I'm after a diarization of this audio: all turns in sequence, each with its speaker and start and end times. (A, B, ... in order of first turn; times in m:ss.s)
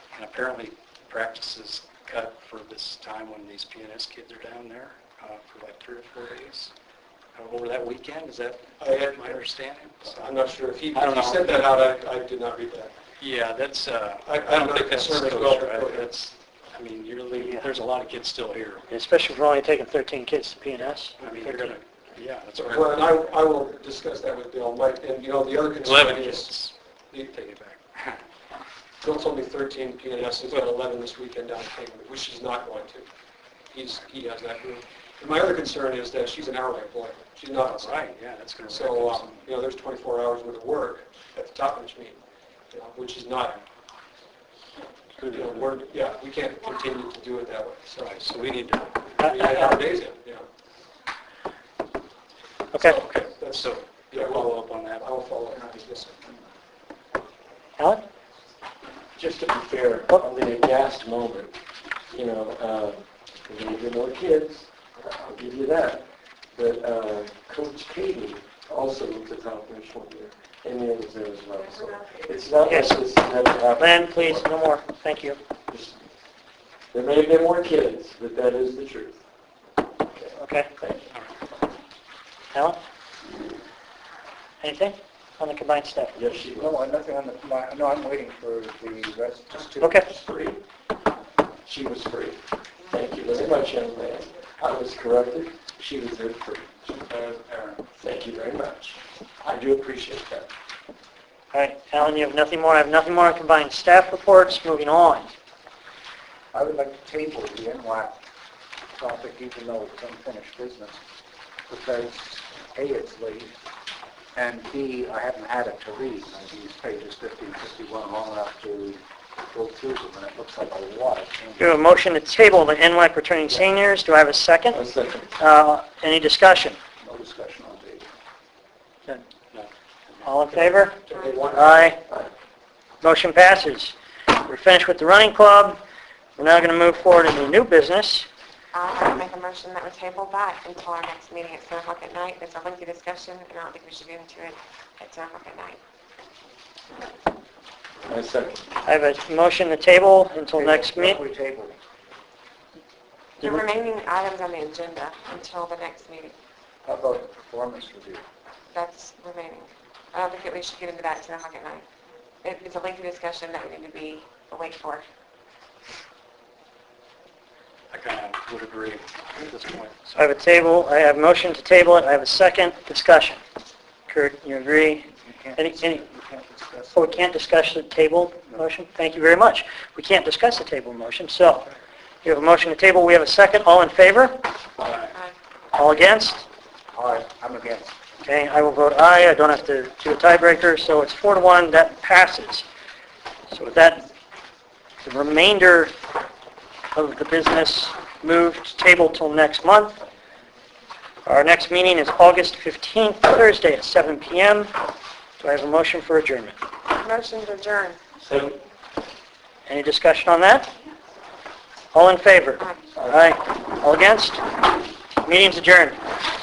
0:00.1-0:06.7 A
0:07.4-0:10.4 A
0:08.8-0:09.4 B
0:10.1-0:12.9 B
0:10.9-0:11.9 A
0:13.2-0:18.9 A
0:14.2-0:16.1 B
0:18.9-0:21.8 C
0:21.2-0:23.3 A
0:22.6-0:26.6 B
0:25.8-0:26.8 A
0:27.3-0:28.2 A
0:29.0-0:33.0 B
0:33.7-0:37.9 B
0:37.6-0:39.4 A
0:38.7-0:42.2 B
0:42.7-0:43.6 B
0:45.2-0:45.6 A
0:45.3-0:48.2 B
0:48.0-0:49.1 A
0:49.2-0:49.8 C
0:49.3-0:50.4 B
0:52.7-0:53.0 C
0:52.9-0:56.2 B
0:53.5-0:55.1 A
0:57.8-0:58.0 C
0:59.2-1:01.6 D
1:02.1-1:14.5 D
1:11.6-1:12.5 E
1:12.6-1:13.0 C
1:13.8-1:15.4 C
1:15.7-1:16.0 D
1:16.9-1:19.2 D
1:20.1-1:21.0 D
1:20.4-1:20.7 C
1:21.1-1:21.4 A
1:22.5-1:22.8 C
1:24.6-1:26.2 C
1:26.1-1:26.8 D
1:26.5-1:30.0 F
1:29.8-1:30.1 C
1:30.1-1:30.6 D
1:31.6-1:37.2 D
1:38.0-1:40.5 D
1:41.5-1:45.3 C
1:46.5-1:48.2 F
1:49.0-1:51.0 F
1:51.7-1:53.5 F
1:54.4-2:01.8 F
2:01.6-2:04.8 C
2:04.7-2:05.3 D
2:05.4-2:06.8 C
2:07.0-2:08.1 F
2:09.5-2:11.2 A
2:10.2-2:12.0 C
2:11.8-2:12.3 D
2:13.0-2:15.8 C
2:16.4-2:18.3 C
2:18.7-2:25.8 E
2:28.1-2:28.7 D
2:28.8-2:31.2 C
2:30.6-2:31.8 F
2:33.4-2:36.4 E
2:36.8-2:38.2 F
2:38.7-2:41.8 E
2:42.4-2:45.0 E
2:47.9-2:50.2 A
2:50.2-2:53.4 C
2:54.1-2:56.0 C
2:55.2-2:57.3 F
2:56.9-3:01.7 C
3:02.2-3:04.4 C
3:04.8-3:05.1 A
3:05.8-3:06.5 C
3:06.9-3:08.0 F
3:08.2-3:12.7 C
3:13.5-3:14.1 C
3:15.0-3:16.0 C
3:16.9-3:20.0 C
3:21.3-3:24.7 C
3:25.4-3:26.6 C
3:26.9-3:28.0 E
3:28.2-3:28.6 D
3:29.7-3:30.7 C
3:31.9-3:34.4 C
3:35.2-3:36.0 C